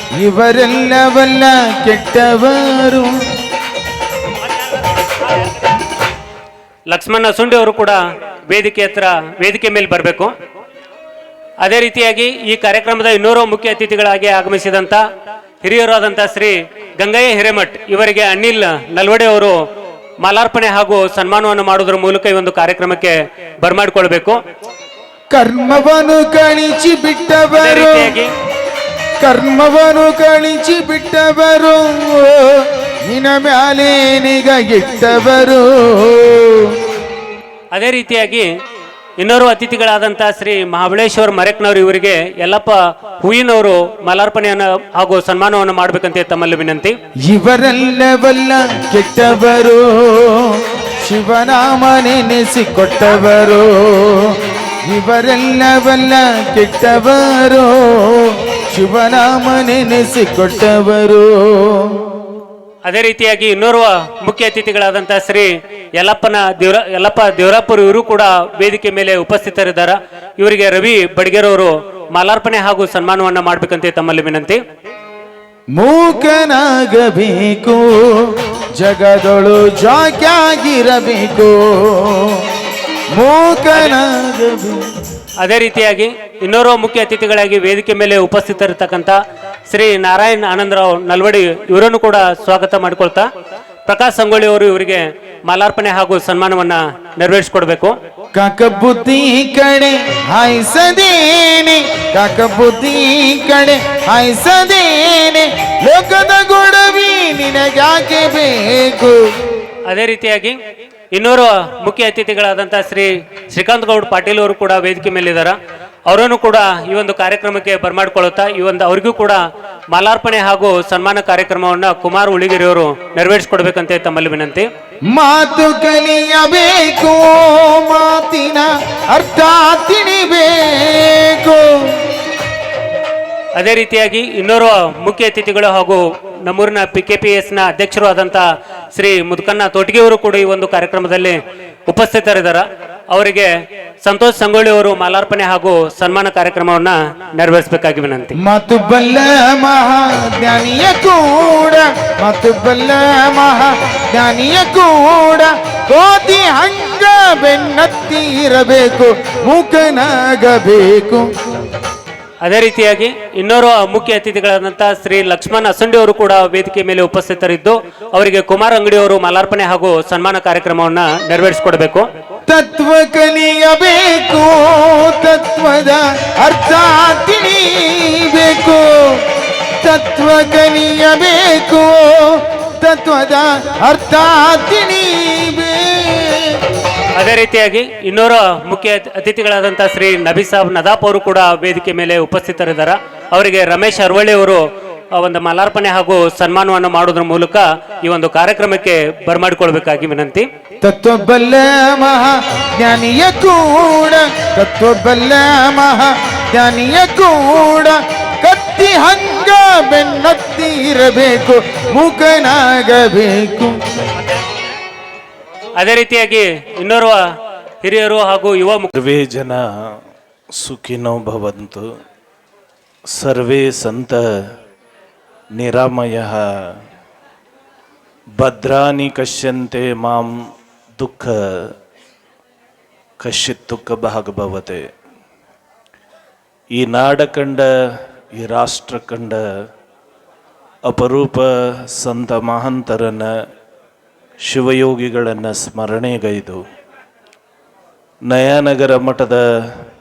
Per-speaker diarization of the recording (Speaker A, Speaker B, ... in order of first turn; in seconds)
Speaker A: 0.2-3.1, 25.3-28.1, 29.2-36.7, 47.3-54.4, 54.9-62.0, 75.7-82.4, 83.1-84.8, 98.3-109.2, 125.1-132.0, 148.4-161.3, 172.5-179.2, 179.8-186.6, 200.8-213.8
Speaker B: 6.9-8.0, 8.5-10.3, 11.6-15.0, 15.6-19.6, 20.2-24.4, 27.6-28.3, 37.7-38.5, 39.2-47.0, 62.9-74.6, 85.4-89.2, 89.7-93.2, 93.9-97.9, 109.9-110.6, 111.1-115.5, 116.1-119.4, 119.9-124.7, 133.6-138.4, 138.9-143.5, 144.0-148.3, 162.4-172.1, 187.2-194.6, 195.2-200.5, 215.8-217.2, 217.8-218.9
Speaker C: 218.9-219.6, 220.6-221.9, 223.1-224.2, 225.6-226.4, 228.4-230.3, 231.0-231.6, 233.2-234.9, 236.8-237.7, 238.4-239.4, 240.9-243.3, 244.5-246.6, 248.3-249.4